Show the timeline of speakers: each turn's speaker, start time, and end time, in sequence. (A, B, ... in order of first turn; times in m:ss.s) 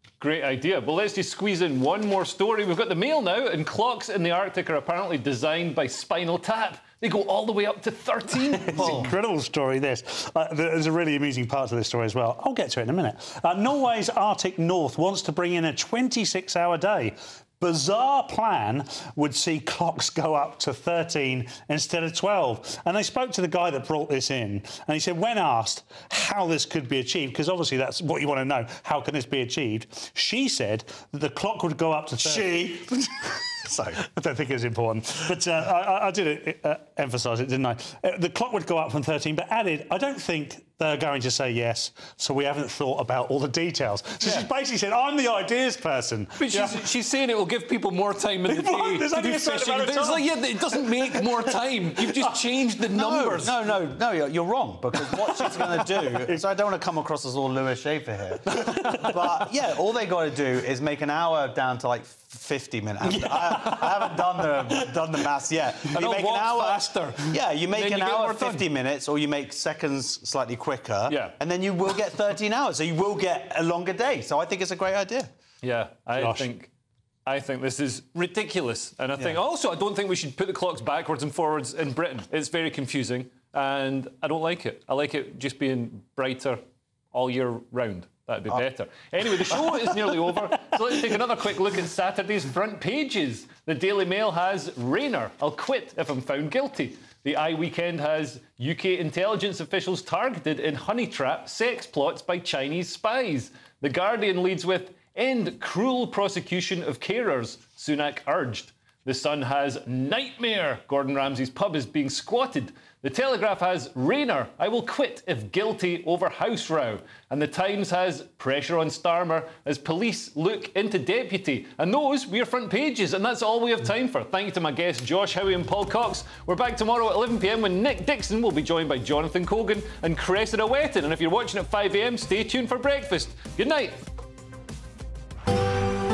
0:00.2-0:09.1 A
0:08.5-0:09.1 B
0:08.8-0:33.0 C
0:32.2-0:33.0 B
0:33.6-0:34.0 B
0:34.0-0:46.8 C
0:46.4-0:53.6 A
0:48.5-0:50.2 C
0:51.0-0:51.6 C
0:52.9-1:15.3 B
1:03.3-1:03.8 C
1:05.9-1:08.6 A
1:11.1-1:11.3 A
1:15.6-1:16.7 A
1:16.2-1:16.5 C
1:17.2-1:26.6 A
1:27.1-2:14.0 A
1:29.8-1:30.1 C